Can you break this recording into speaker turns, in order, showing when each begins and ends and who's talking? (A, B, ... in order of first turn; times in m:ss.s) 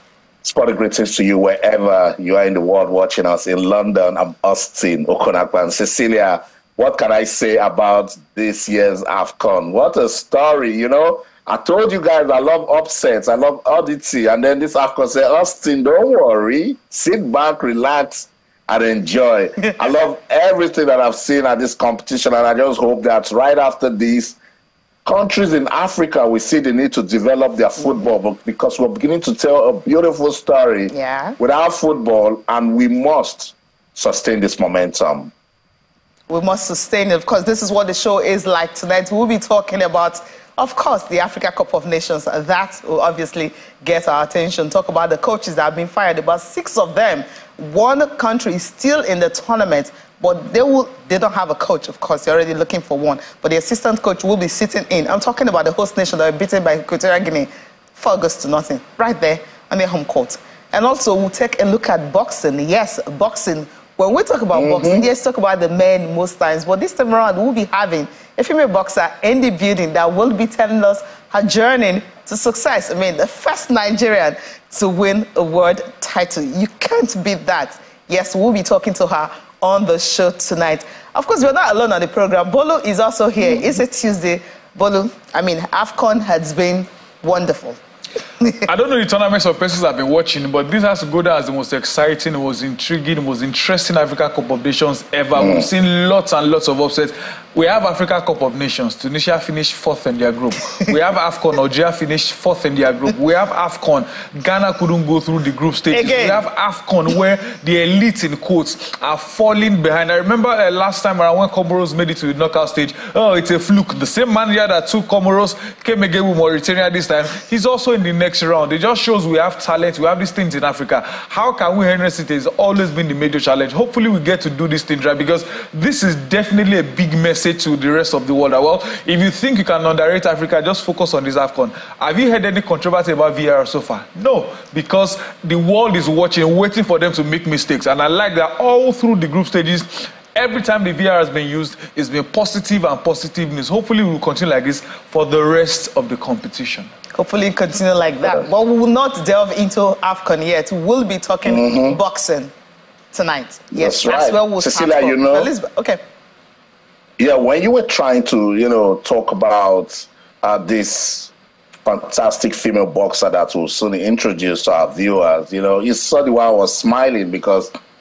0:00.4-0:24.4 A
0:25.0-0:35.3 A
0:30.9-0:31.4 B
0:36.3-1:27.8 B
1:04.5-1:05.1 A
1:28.7-2:26.9 C
1:35.4-1:35.7 A
1:45.9-1:46.4 B
2:27.2-2:32.5 B
2:31.5-2:32.0 A
2:33.1-2:36.0 B
2:33.8-2:35.5 A
2:37.2-2:41.3 A
2:41.8-2:47.7 A